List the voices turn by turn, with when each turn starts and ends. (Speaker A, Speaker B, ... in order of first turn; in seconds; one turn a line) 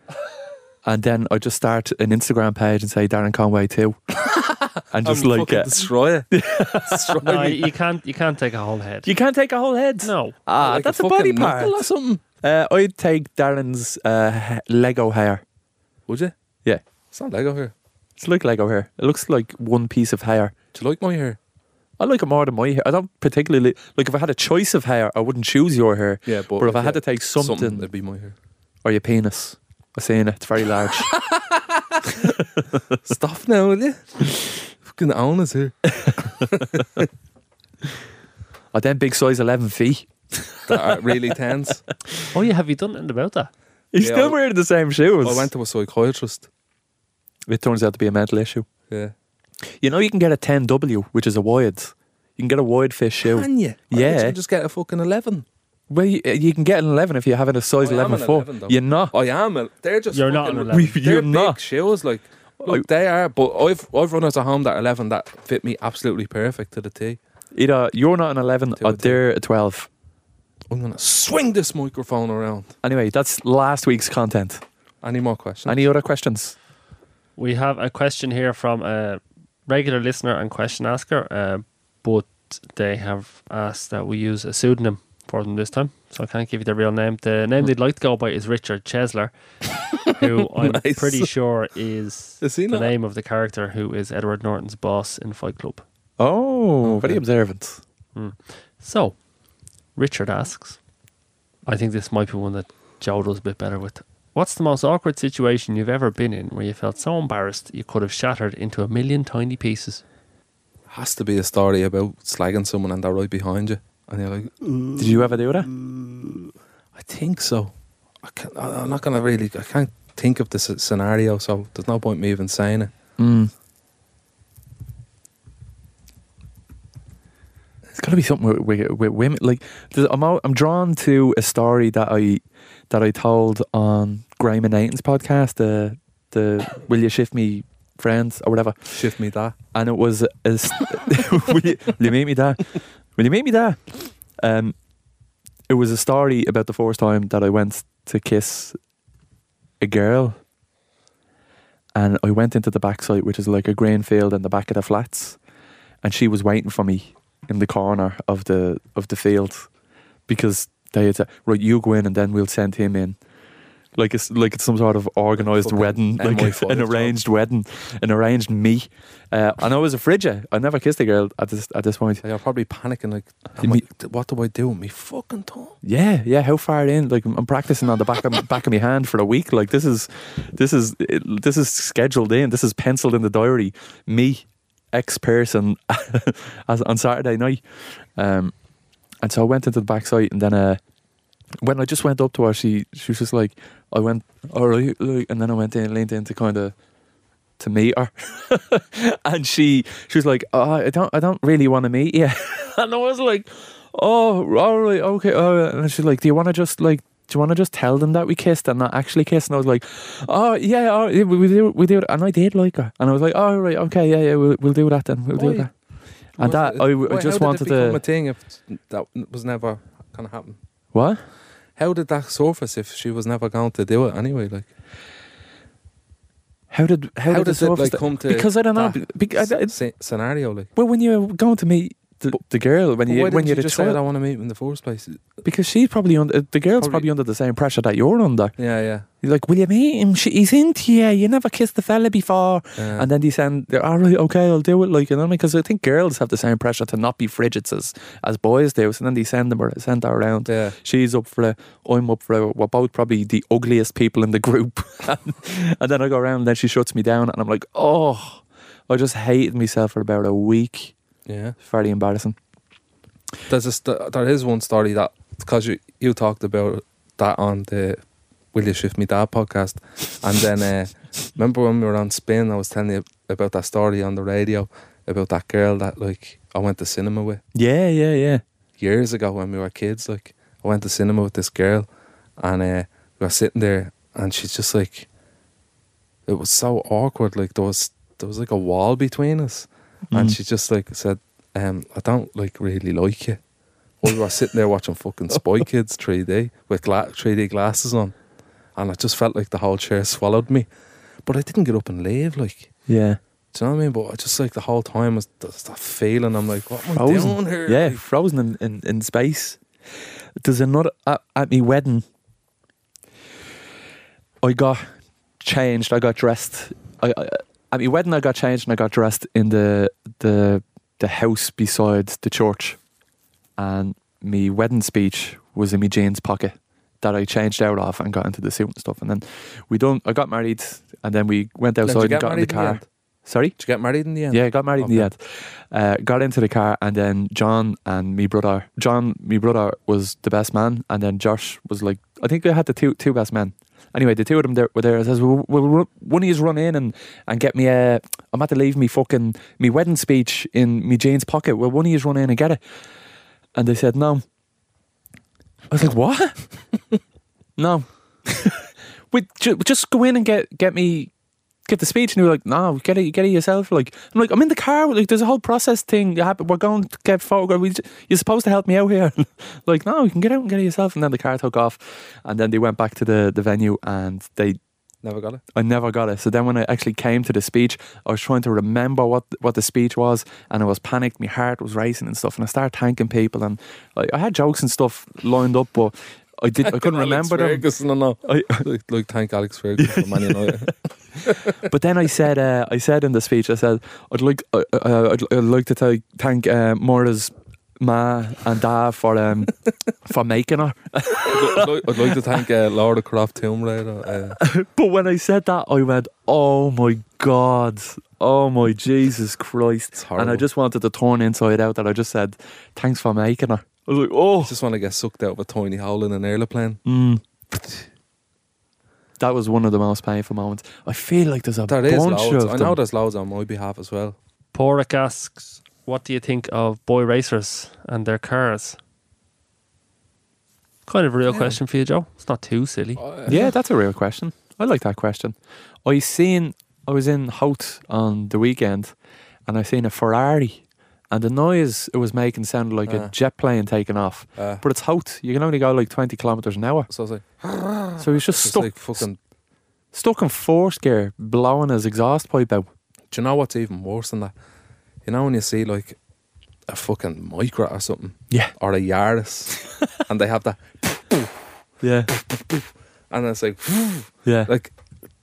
Speaker A: 0.8-4.0
Speaker B: 4.3-7.7
Speaker A: 4.9-5.7
Speaker A: 6.3-7.1
Speaker C: 7.2-9.1
Speaker A: 9.0-11.9
Speaker C: 10.0-10.3
Speaker B: 10.6-12.2
Speaker A: 12.4-15.4
Speaker B: 16.1-16.3
Speaker B: 17.1-17.7
Speaker A: 18.2-20.5
Speaker B: 20.7-21.4
Speaker A: 22.0-27.9
Speaker B: 26.2-28.3
Speaker A: 28.8-31.1
Speaker B: 31.1-32.0
Speaker B: 33.0-37.1
Speaker A: 38.7-41.1
Speaker B: 40.7-41.8
Speaker C: 42.3-43.5
Speaker A: 43.9-45.5
Speaker B: 44.0-44.4
Speaker B: 45.2-46.5
Speaker A: 47.5-48.6
Speaker A: 49.8-54.4
Speaker B: 53.2-55.4
Speaker A: 55.9-59.1
Speaker B: 57.8-67.2
Speaker C: 60.1-61.0
Speaker A: 60.7-61.6
Speaker A: 67.5-69.9
Speaker B: 68.8-69.2
Speaker B: 70.7-72.7
Speaker A: 72.8-74.6
Speaker B: 75.0-75.8
Speaker A: 75.7-76.5
Speaker C: 77.4-89.3
Speaker C: 90.0-95.8
Speaker B: 90.5-91.3
Speaker B: 92.4-92.9
Speaker A: 96.2-97.8
Speaker B: 96.8-97.2
Speaker C: 98.1-99.2
Speaker C: 99.9-100.8
Speaker C: 101.7-110.0
Speaker B: 110.9-114.9
Speaker A: 115.0-115.7
Speaker B: 116.9-122.9
Speaker A: 123.2-123.5
Speaker A: 127.9-138.9
Speaker B: 138.9-139.6
Speaker A: 139.7-144.8
Speaker A: 145.7-148.8
Speaker A: 149.8-150.4
Speaker A: 151.9-155.4
Speaker A: 156.0-159.7
Speaker A: 160.3-163.2
Speaker A: 163.9-172.2
Speaker B: 165.4-167.2
Speaker B: 172.2-175.8
Speaker A: 175.8-187.6
Speaker A: 188.2-188.5
Speaker A: 189.2-190.8
Speaker A: 191.6-196.7
Speaker A: 197.6-215.7
Speaker B: 215.3-215.7
Speaker A: 216.4-218.0
Speaker B: 216.4-220.6
Speaker A: 220.9-221.2
Speaker B: 221.8-224.7
Speaker A: 226.7-229.8
Speaker B: 227.3-230.7
Speaker A: 230.7-234.0
Speaker B: 233.1-235.4
Speaker A: 235.4-238.5
Speaker B: 236.8-237.1
Speaker B: 238.6-239.1
Speaker A: 239.2-260.9
Speaker B: 242.8-243.1
Speaker B: 250.5-250.8
Speaker B: 261.2-261.6
Speaker A: 261.6-262.4
Speaker B: 263.5-268.0
Speaker B: 268.5-277.4
Speaker A: 277.5-278.4
Speaker B: 278.8-285.1
Speaker B: 286.3-293.4
Speaker A: 290.1-290.4
Speaker B: 294.0-298.1
Speaker B: 298.8-300.7
Speaker B: 301.2-302.7
Speaker A: 302.9-303.2
Speaker B: 303.5-308.0
Speaker A: 306.9-309.6
Speaker A: 310.4-312.0
Speaker A: 314.4-314.9
Speaker A: 315.4-322.8
Speaker A: 323.6-333.6
Speaker B: 331.8-332.8
Speaker B: 333.6-335.1
Speaker A: 334.3-352.6
Speaker A: 353.6-354.2
Speaker A: 355.7-356.4
Speaker A: 357.6-361.1
Speaker A: 361.6-374.6
Speaker B: 375.0-375.4
Speaker A: 375.5-387.6
Speaker B: 386.6-391.6
Speaker A: 388.2-388.6
Speaker A: 389.8-390.6
Speaker A: 391.6-402.2
Speaker B: 401.3-404.4
Speaker A: 404.4-414.5
Speaker B: 409.9-410.4
Speaker B: 414.4-416.8
Speaker A: 416.8-417.2
Speaker A: 419.2-422.8
Speaker B: 421.7-424.2
Speaker C: 424.5-428.8
Speaker C: 430.9-433.0
Speaker B: 431.2-431.6
Speaker B: 433.0-433.5
Speaker A: 433.3-435.3
Speaker A: 435.8-438.9
Speaker A: 439.5-446.9
Speaker B: 442.9-443.1
Speaker B: 444.4-444.6
Speaker B: 446.9-449.2
Speaker A: 448.0-449.1
Speaker A: 449.9-452.7
Speaker B: 453.1-454.3
Speaker B: 455.0-456.0
Speaker B: 456.7-461.3
Speaker A: 461.8-462.1
Speaker B: 462.1-464.7
Speaker A: 464.2-464.5